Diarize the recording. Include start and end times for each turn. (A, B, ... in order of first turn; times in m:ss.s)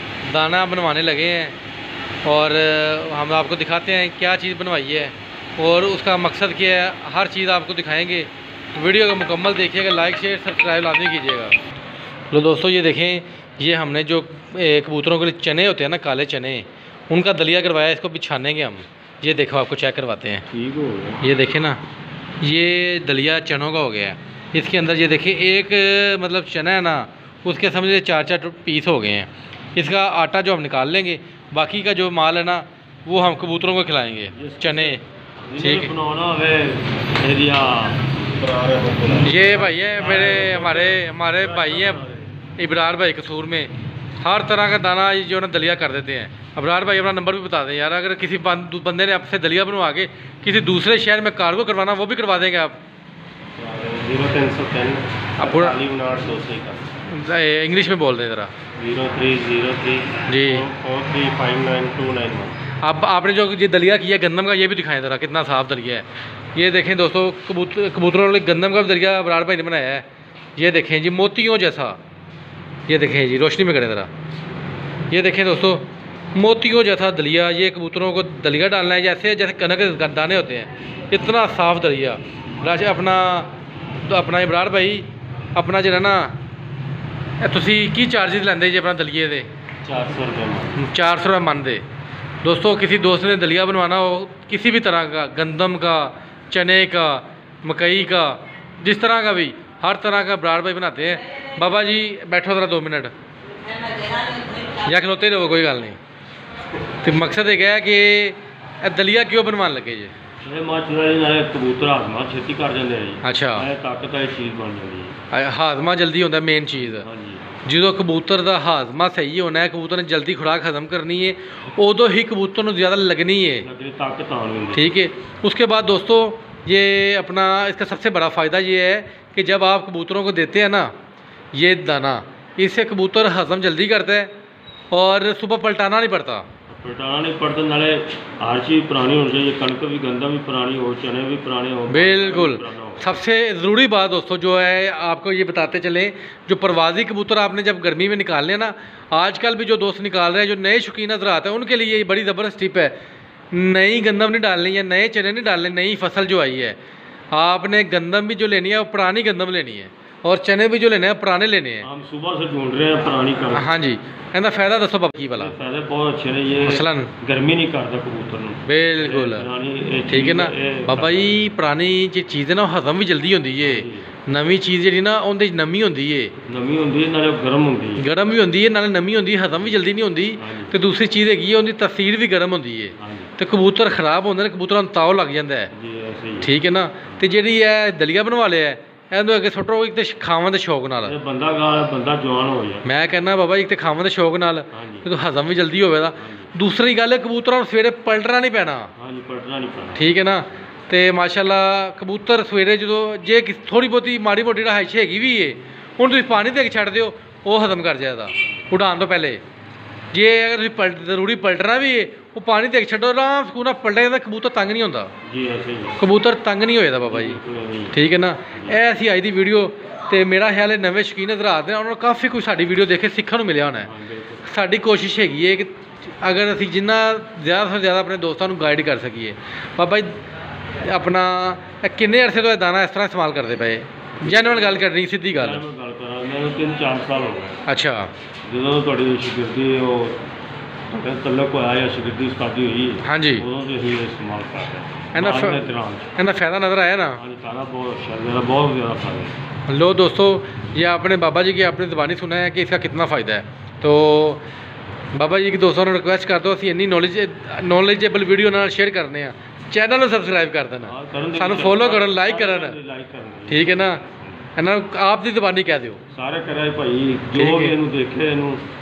0:00.2-0:01.6 A
0:02.2-0:11.6 A
0:12.3-0:20.5 A
0:20.5-0:21.2 B
0:21.2-0:21.8 A
0:22.4-0:35.0 A
0:34.3-0:42.3 B
0:35.6-0:35.9 A
0:39.2-0:42.0 A
0:42.6-0:52.8 A
0:53.6-0:56.9 B
0:55.4-0:55.8 A
0:57.1-0:58.5 A
0:58.8-1:02.6 B
1:00.3-1:00.7 A
1:02.8-1:10.0 A
1:10.6-1:12.0 A
1:12.9-1:14.1 A
1:15.1-1:23.5 A
1:24.1-1:26.3 A
1:27.4-1:29.5 A
1:29.8-1:30.8 B
1:30.8-1:31.8 A
1:32.4-1:43.1 A
1:44.7-1:46.0 A
1:47.0-1:50.1 A
1:50.4-1:55.2 B
1:53.2-1:53.7 A
1:55.3-1:57.1 A
1:56.8-1:57.6 B
1:57.6-2:03.7 A
2:03.6-2:04.9 B
2:04.7-2:10.9 A
2:11.5-2:14.3 A
2:14.9-2:16.4 A
2:16.7-2:23.1 B
2:21.9-2:32.9 A
2:33.5-2:36.8 A
2:37.3-2:41.9 A
2:41.8-2:43.8 B
2:43.5-2:45.5 A
2:45.3-2:51.4 B
2:46.6-2:47.1 A
2:48.7-2:49.5 A
2:50.1-2:56.3 A
2:53.6-2:54.1 B
2:56.5-2:58.1 B
2:58.0-3:05.7 A
3:00.4-3:00.7 B
3:03.0-3:03.3 B
3:05.7-3:06.5 B
3:06.4-3:11.1 A
3:11.0-3:12.9 B
3:12.8-3:18.9 A
3:14.7-3:15.1 B
3:16.2-3:16.5 B
3:19.0-3:20.1 B
3:20.0-3:29.4 A
3:30.1-3:35.1 A
3:35.2-3:36.0 B
3:36.0-3:37.4 A
3:37.1-3:38.0 B
3:37.9-3:43.9 A
3:43.8-3:44.4 B
3:44.5-3:50.2 A
3:50.8-3:55.6 A
3:54.2-3:57.6 B
3:57.7-3:58.1 A
3:58.4-4:00.2 B
4:00.9-4:06.2 B
4:03.0-4:03.4 A
4:05.1-4:05.6 A
4:06.2-4:07.2 A
4:07.2-4:09.4 B
4:09.7-4:14.4 A
4:15.2-4:22.8 A
4:20.8-4:24.5 B
4:23.5-4:24.0 A
4:24.6-4:26.0 A
4:26.1-4:28.6 B
4:27.4-4:27.8 A